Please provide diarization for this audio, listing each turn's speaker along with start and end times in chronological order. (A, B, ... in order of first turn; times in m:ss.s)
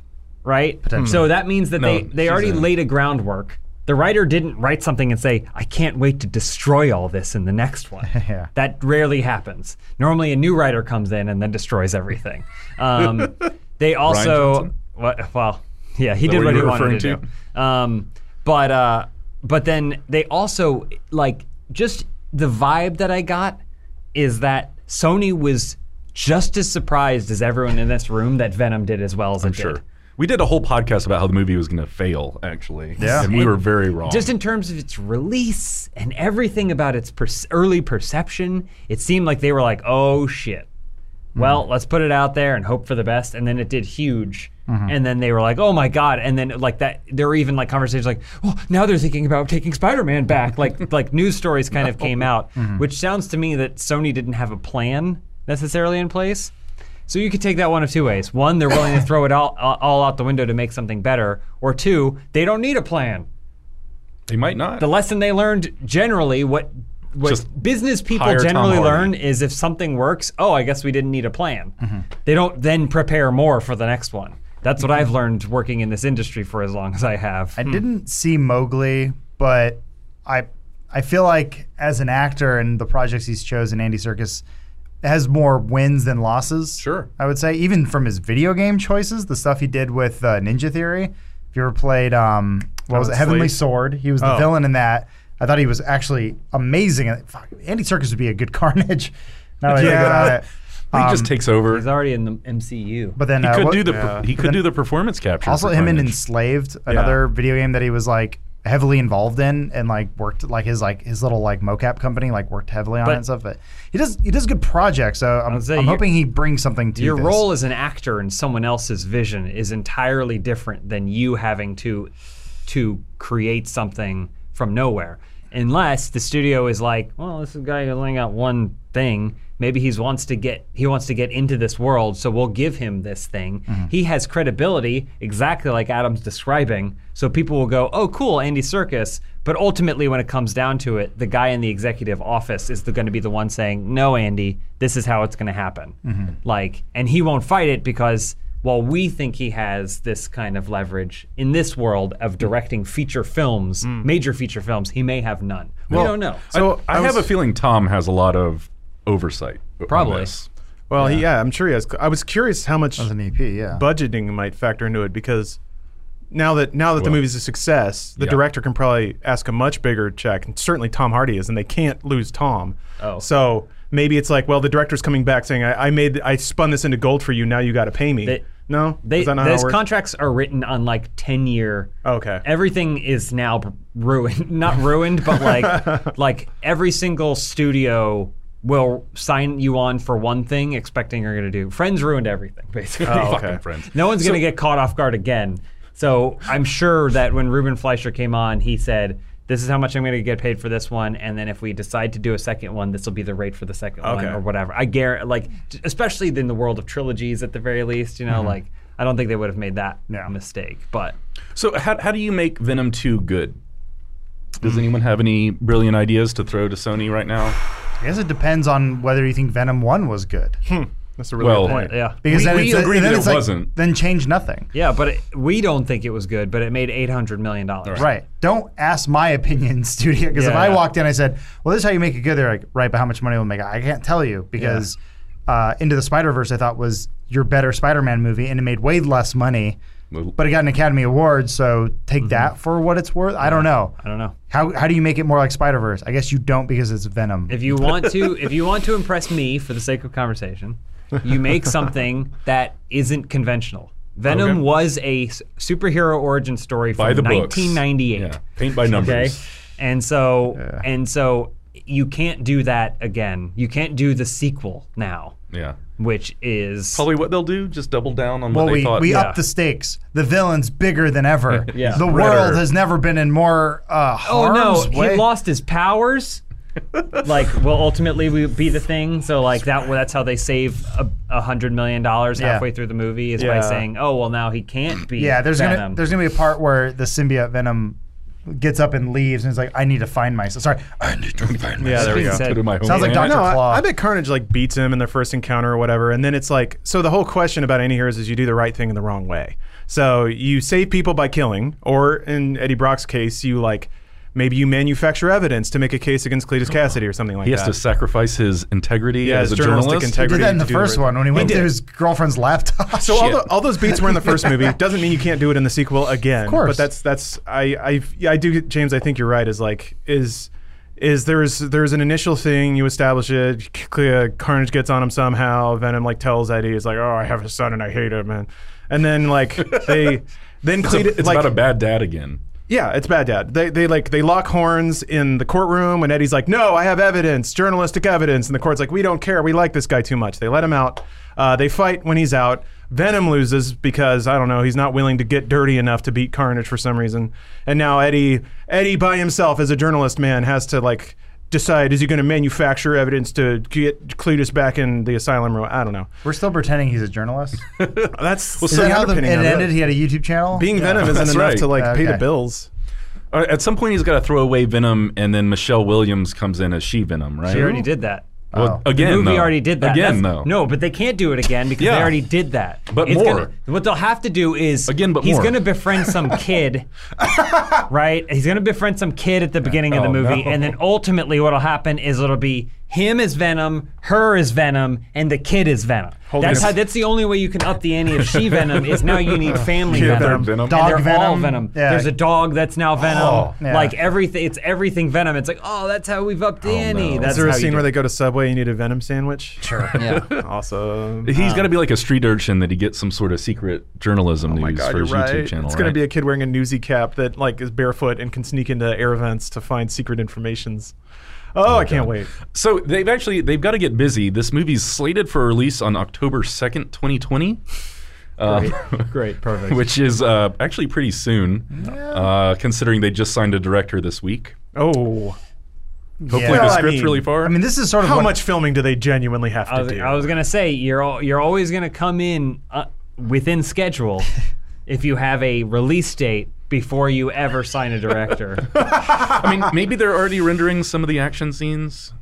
0:00.4-0:23.6 A
0:00.9-0:01.2 B
0:01.0-0:01.2 C
0:01.8-0:02.7 D
0:08.1-0:08.5 B
0:14.0-0:14.7 D
0:16.2-0:17.2 D
0:24.2-0:29.8 A
0:29.4-0:34.3 D
0:33.0-0:33.3 B
0:33.0-0:40.7 A
0:41.4-0:41.6 B
0:41.4-0:56.5 A
0:44.7-0:44.9 B
0:52.6-0:52.8 B
0:57.1-1:03.3 A
1:04.3-1:04.9 D
1:04.8-1:17.6 A
1:08.1-1:09.2 D
1:17.6-1:24.4 B
1:25.0-1:41.3 B
1:26.8-1:27.1 D
1:32.9-1:33.6 C
1:34.2-1:34.5 C
1:39.7-1:40.4 C
1:39.9-1:40.4 D
1:40.9-1:41.9 D
1:41.7-1:43.2 A
1:43.2-1:44.6 B
1:43.4-1:46.2 D
1:43.8-1:44.3 C
1:45.4-1:57.5 B
1:46.9-1:47.2 C
1:55.5-1:56.1 A
1:57.0-2:02.1 A
2:02.7-2:36.4 A
2:26.1-2:26.3 B
2:33.8-2:34.1 C
2:35.9-2:40.5 D
2:35.9-2:37.3 C
2:39.9-2:40.3 A
2:40.9-2:43.1 C
2:41.0-2:41.2 B
2:43.0-2:43.8 B
2:43.7-2:45.6 C
2:46.3-2:59.8 C
2:48.2-2:48.4 D
2:53.0-2:53.3 A
2:58.2-3:01.9 A
3:02.0-3:02.4 C
3:02.4-3:31.2 A
3:05.5-3:06.1 C
3:13.0-3:14.4 D
3:13.1-3:13.6 C
3:24.0-3:24.4 C
3:31.6-3:33.6 D
3:34.6-3:37.6 D
3:38.0-3:40.6 B
3:40.7-3:42.0 C
3:41.4-3:43.7 D
3:41.6-3:42.2 A
3:42.2-3:44.7 B
3:44.7-3:48.1 A
3:48.0-3:59.8 B
3:50.4-3:50.9 A
3:54.6-3:54.9 A
4:00.4-4:04.0 B
4:02.2-4:02.5 A
4:03.4-4:04.4 A
4:04.5-4:07.7 B
4:07.5-4:18.4 A
4:14.3-4:14.6 C
4:17.0-4:19.4 D
4:18.9-4:25.4 A
4:25.5-4:25.8 D
4:26.0-4:27.0 A
4:27.0-4:29.2 D
4:28.5-4:35.3 B
4:29.0-4:29.4 A
4:31.6-4:32.6 D
4:31.7-4:32.1 A
4:34.2-4:36.4 A
4:37.2-4:46.0 A
4:42.4-4:42.7 B
4:43.4-4:43.9 C
4:45.2-4:53.9 B
4:51.4-4:53.5 D
4:51.8-5:07.8 C
4:51.9-4:52.7 A
5:07.4-5:10.5 D
5:09.2-5:11.7 C
5:10.2-5:14.7 B
5:11.3-5:11.7 D
5:13.0-5:31.6 C
5:16.4-5:16.9 B
5:29.6-5:30.2 D
5:30.8-5:32.4 D
5:32.7-5:56.1 C
5:56.2-5:57.7 B
5:57.8-5:58.9 D
5:58.1-5:59.8 C
5:58.7-6:02.2 B
6:00.5-6:02.7 C
6:00.8-6:01.7 D
6:03.3-6:07.8 D
6:07.5-6:08.3 A
6:08.5-6:08.8 B
6:08.5-6:10.5 D
6:08.9-6:16.9 A
6:11.8-6:12.2 D
6:12.9-6:13.5 D
6:14.9-6:15.6 D
6:17.7-6:37.9 A
6:19.9-6:20.6 D
6:26.3-6:26.8 C
6:28.3-6:31.0 D
6:29.9-6:30.6 C
6:30.6-6:32.1 B
6:33.0-6:33.5 D
6:33.6-6:34.0 B
6:36.6-6:37.5 D
6:37.2-6:39.7 C
6:39.6-6:39.9 B
6:39.7-6:40.4 D
6:40.0-6:40.3 A
6:40.4-6:41.3 C
6:41.2-6:46.0 D
6:41.4-6:41.7 A
6:44.4-6:51.0 C
6:51.5-6:52.3 C
6:51.6-6:57.6 D
6:58.4-7:04.6 D
6:58.5-6:59.2 A
6:58.5-6:59.8 C
7:01.7-7:02.3 B
7:04.8-7:05.4 C
7:06.2-7:08.4 B
7:06.3-7:07.6 D
7:06.4-7:07.3 C
7:08.0-7:10.3 C
7:09.7-7:14.3 A
7:14.9-7:18.7 A
7:18.8-7:22.1 D